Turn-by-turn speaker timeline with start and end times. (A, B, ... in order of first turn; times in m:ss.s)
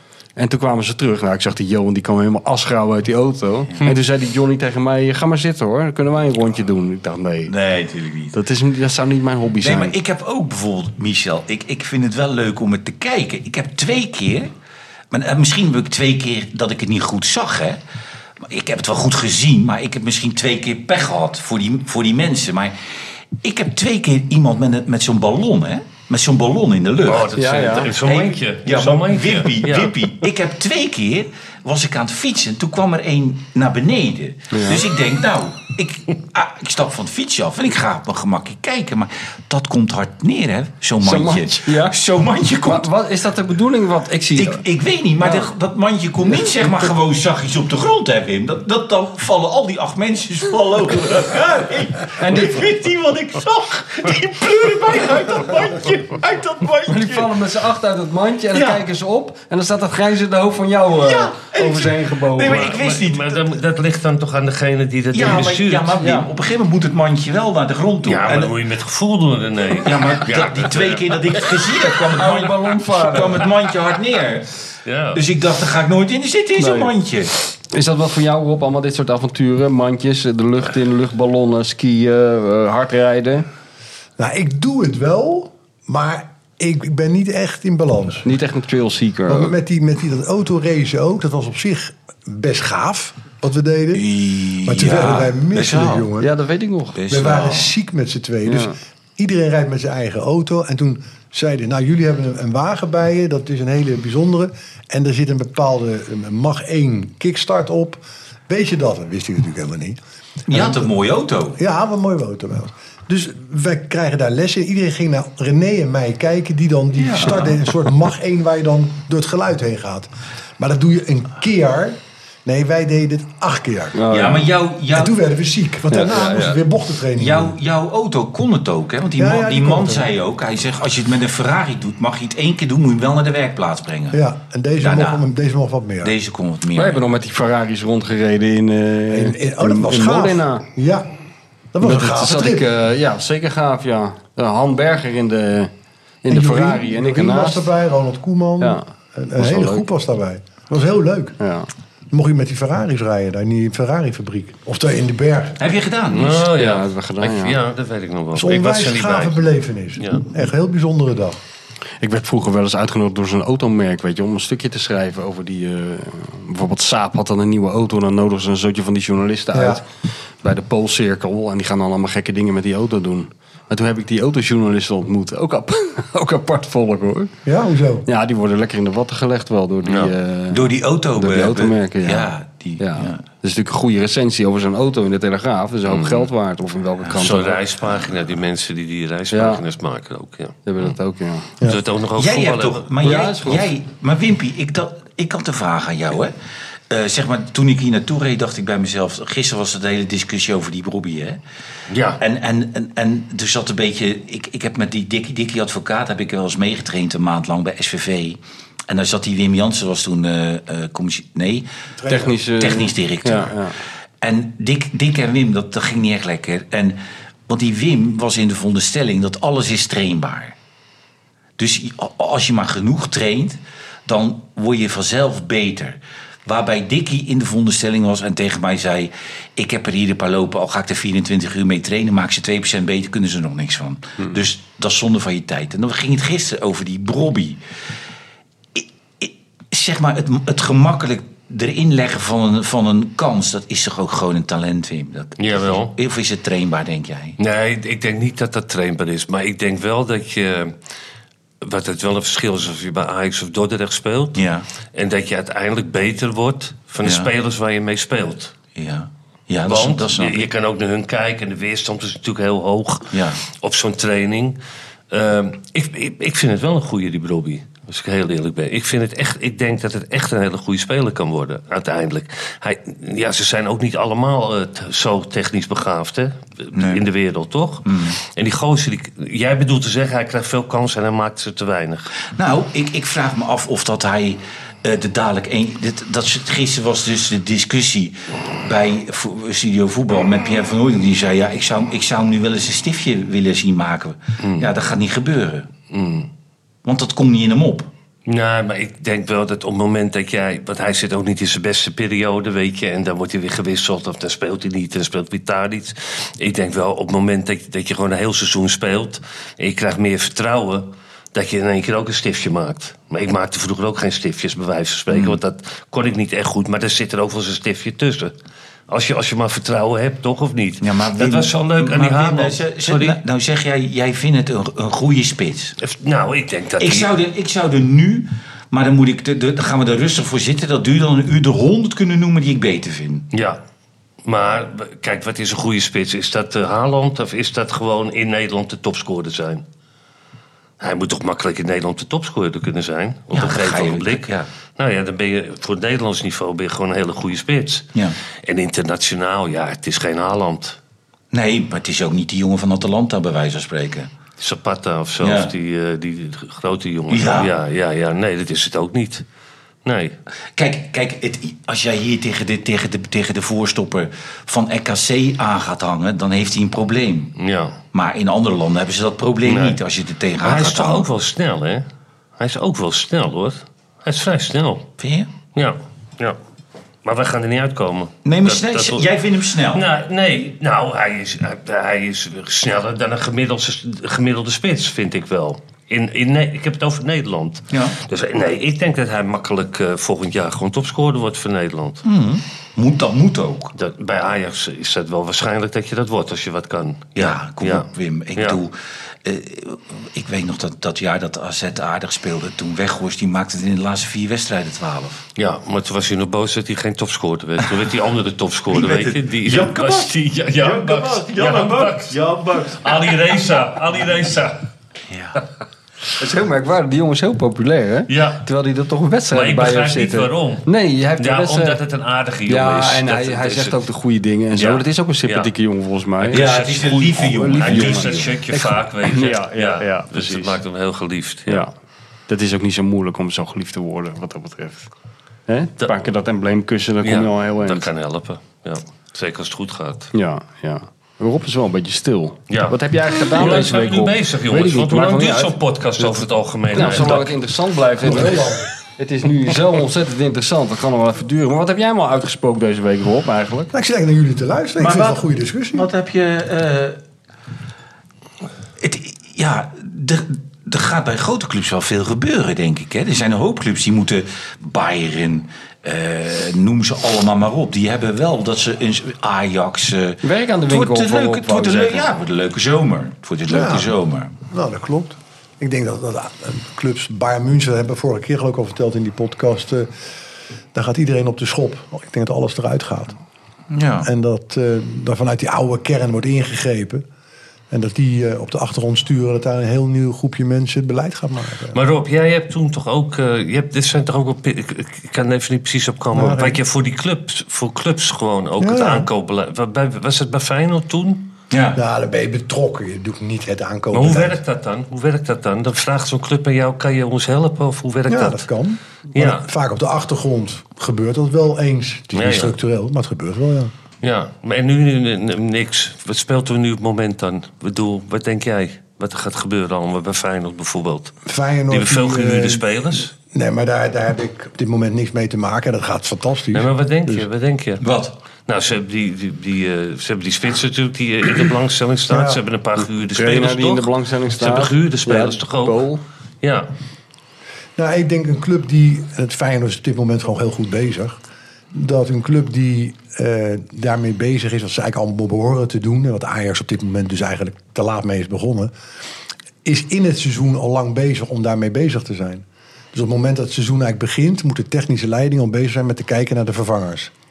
0:00.4-0:07.5 A
0:07.4-0:08.4 B
0:08.3-0:09.9 A
0:09.6-0:14.5 B
0:15.1-0:17.8 B
0:18.4-0:22.8 B
0:23.4-0:42.9 B
0:27.0-0:30.1 C
0:27.4-0:27.9 A
0:34.5-0:34.8 A
0:41.0-0:42.0 A
0:42.6-0:44.6 A
0:44.3-0:57.3 B
0:45.2-0:45.5 A
0:52.2-0:52.6 A
0:56.9-1:02.7 A
0:58.5-0:58.8 B
1:01.0-1:03.5 B
1:02.4-1:06.0 C
1:05.1-1:08.5 B
1:06.0-1:06.3 A
1:08.0-1:11.7 C
1:09.8-1:14.5 B
1:12.1-1:13.5 A
1:14.8-1:15.2 C
1:15.1-1:17.3 B
1:16.6-1:16.9 A
1:17.7-1:23.4 A
1:24.2-1:28.3 D
1:28.2-1:29.5 A
1:29.3-1:36.3 D
1:33.9-1:36.1 B
1:36.2-1:37.0 A
1:36.9-1:37.7 B
1:37.1-1:50.0 D
1:38.4-1:38.8 A
1:50.5-1:51.6 B
1:50.5-1:50.9 D
1:51.6-2:04.4 D
1:57.0-1:57.6 B
2:03.9-2:04.5 A
2:04.1-2:05.2 B
2:04.9-2:07.6 D
2:05.9-2:06.6 A
2:07.1-2:14.2 B
2:09.2-2:10.1 D
2:14.1-2:16.1 D
2:14.8-2:15.2 B
2:16.0-2:17.0 B
2:16.7-2:20.6 A
2:19.1-2:21.1 D
2:21.7-2:22.6 D
2:21.8-2:25.7 A
2:26.2-2:27.7 A
2:26.3-2:31.4 D
2:28.6-2:29.8 A
2:31.4-2:31.7 A
2:32.1-2:35.6 D
2:35.6-2:36.5 B
2:36.1-2:40.3 C
2:36.5-2:37.6 A
2:38.3-2:41.4 D
2:42.0-2:49.8 A
2:49.5-2:49.8 D
2:50.4-2:57.3 A
2:57.4-2:58.1 D
2:58.0-3:07.6 A
2:59.8-3:00.1 C
3:00.5-3:03.2 B
3:05.9-3:06.3 C
3:07.1-3:10.9 C
3:09.3-3:09.6 A
3:10.6-3:11.5 A
3:11.6-3:13.3 C
3:12.2-3:16.3 B
3:13.0-3:13.6 A
3:16.9-3:21.4 B
3:21.9-3:22.2 C
3:22.2-3:31.7 B
3:32.0-3:32.3 D
3:32.1-3:33.8 A
3:32.6-3:33.6 B
3:34.2-3:40.5 B
3:41.6-3:57.6 B
3:58.7-4:07.4 B
4:05.4-4:05.9 C
4:07.4-4:10.7 C
4:11.6-4:14.4 C
4:14.4-4:14.7 B
4:14.9-4:18.5 C
4:17.0-4:17.3 B
4:18.7-4:20.4 B
4:19.6-4:24.6 C
4:23.1-4:23.4 B
4:25.1-4:42.1 C
4:36.7-4:37.0 B
4:37.8-4:38.2 B
4:42.3-4:55.7 B
4:54.4-4:54.7 C
4:55.9-4:56.3 C
4:56.8-4:57.9 B
4:58.2-5:18.3 C
5:15.1-5:15.4 B
5:18.9-5:23.2 C
5:20.8-5:25.8 B
5:25.8-5:27.1 C
5:26.8-5:33.3 B
5:33.3-5:33.6 C
5:34.2-5:39.6 C
5:40.8-5:47.9 C
5:43.3-5:44.5 B
5:48.4-5:50.8 C
5:51.3-5:54.1 B
5:54.4-5:59.2 C
5:55.2-5:55.5 B
5:57.1-5:57.5 B
5:59.8-6:00.2 C
6:00.5-6:07.4 B
6:07.4-6:07.8 C
6:07.9-6:11.1 B
6:09.4-6:09.8 C
6:10.4-6:11.8 C
6:12.4-6:14.9 C
6:15.0-6:15.3 B
6:15.5-6:16.4 C
6:17.0-6:19.1 C
6:18.2-6:19.8 B
6:19.7-6:32.0 C
6:32.0-6:33.7 B
6:33.8-6:38.6 C
6:37.2-6:45.2 B
6:45.4-6:54.7 C
6:48.7-6:53.4 B
6:55.1-6:55.4 B
6:56.2-7:01.8 A
6:58.1-6:58.4 C
6:59.3-7:00.7 C
7:01.2-7:03.8 C
7:02.5-7:10.6 A
7:04.6-7:05.5 C
7:06.2-7:11.7 C
7:06.3-7:08.4 B
7:11.5-7:11.7 A
7:12.3-7:14.9 A
7:15.5-7:17.9 A
7:17.0-7:20.1 C
7:20.1-7:26.2 A
7:22.5-7:27.4 C
7:26.7-7:33.7 A
7:28.0-7:28.7 D
7:33.7-7:35.9 D
7:34.8-7:37.0 B
7:38.8-7:54.3 B
7:50.2-7:52.1 A
7:53.5-7:53.9 D
7:54.5-7:59.9 D
8:00.7-8:03.2 D
8:03.7-8:04.1 B
8:04.0-8:07.0 D
8:07.7-8:11.8 D
8:11.7-8:21.3 C
8:16.1-8:16.6 D
8:18.6-8:19.1 D
8:21.5-8:21.8 B
8:21.8-8:24.4 D
8:23.9-8:28.5 C
8:28.1-8:33.7 D
8:29.1-8:29.4 C
8:32.1-8:32.5 C
8:34.0-8:43.1 C
8:41.2-8:47.3 D
8:46.5-8:47.8 C
8:47.8-8:48.1 B
8:48.5-8:55.8 C
8:52.1-8:52.4 D
8:53.1-8:56.0 A
8:56.4-8:56.7 C
8:57.8-9:01.2 D
9:01.7-9:08.7 D
9:09.6-9:17.1 D